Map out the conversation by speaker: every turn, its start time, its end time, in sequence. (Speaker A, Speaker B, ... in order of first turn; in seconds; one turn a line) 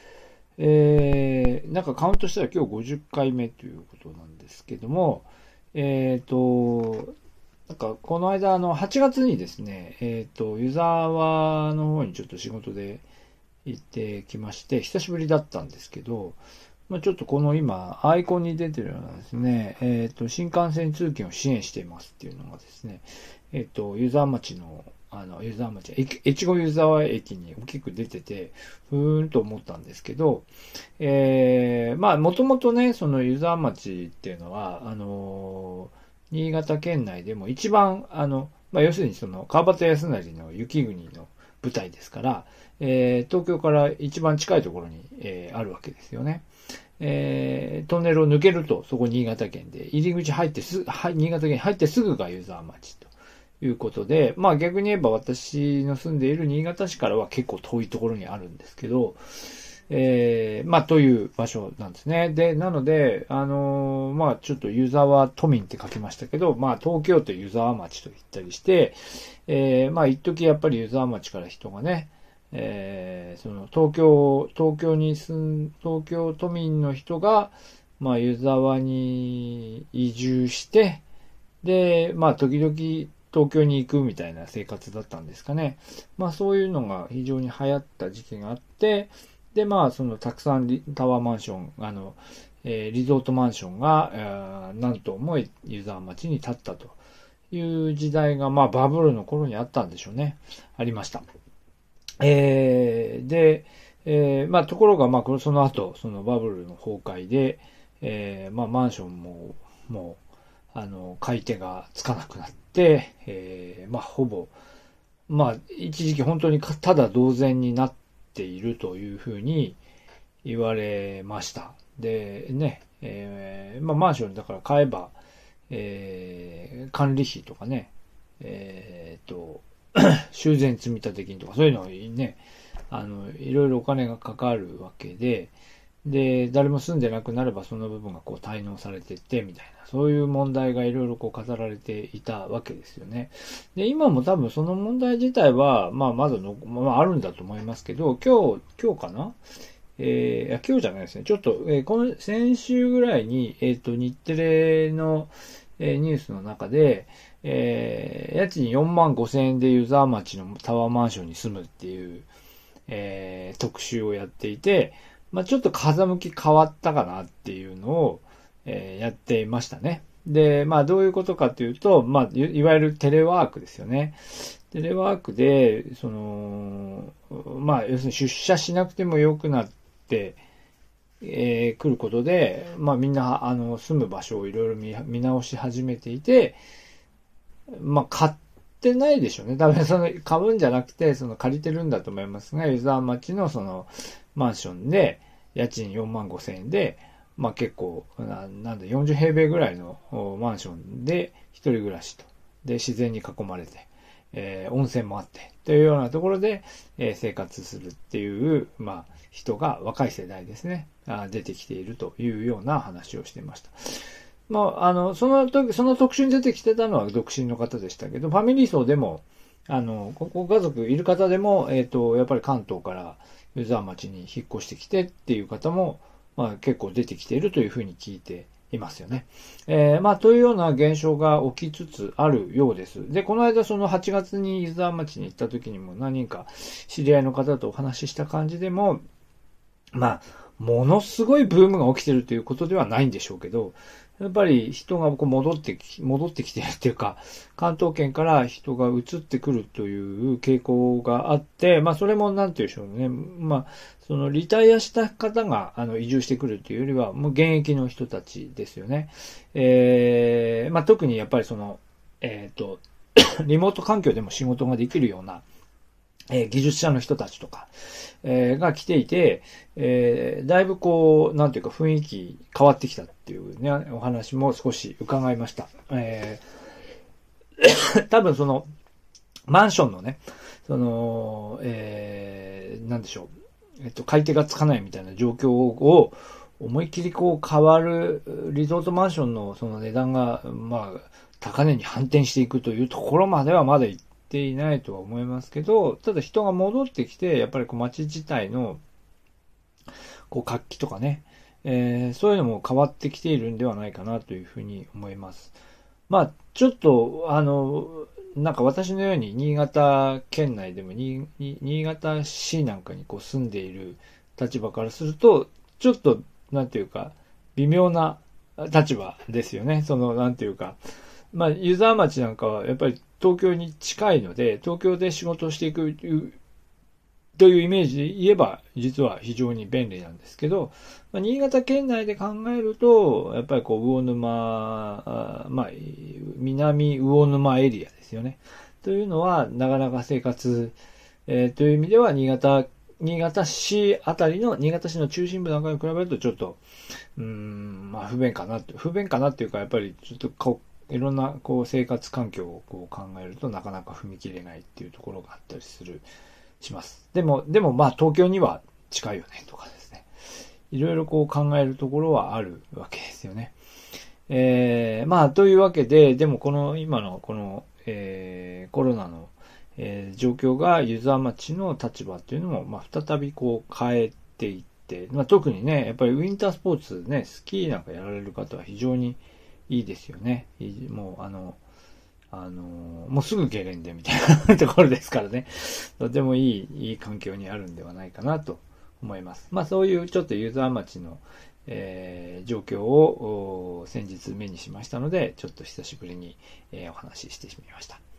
Speaker A: 0.6-7.1
Speaker A: 7.7-13.1
Speaker A: 13.7-30.5
Speaker A: 31.0-46.5
Speaker A: 47.0-53.1
Speaker A: 53.6-59.2
Speaker A: 59.9-81.0
Speaker A: 81.6-97.0
Speaker A: 97.5-101.2
Speaker A: 102.2-110.2
Speaker A: 110.7-114.5
Speaker A: 115.3-119.8
Speaker A: 120.4-125.2
Speaker A: 125.7-132.4
Speaker A: 132.9-135.5
Speaker A: 136.1-149.4
Speaker A: 150.0-162.3
Speaker A: 162.9-180.4
Speaker A: 181.2-186.6
Speaker A: 187.7-239.0
Speaker A: 239.9-265.4
Speaker A: 266.3-267.7
Speaker A: 268.2-276.4
Speaker A: 277.6-278.7
Speaker A: 279.5-283.3
Speaker A: 283.8-298.8
Speaker A: 300.3-305.6
Speaker A: 306.1-320.8
Speaker A: 321.3-326.4
Speaker A: 327.4-340.8
Speaker A: 341.3-346.6
Speaker A: 347.2-356.1
Speaker A: 356.6-360.1
Speaker A: 360.7-363.6
Speaker A: 364.3-381.6
Speaker A: 382.3-398.0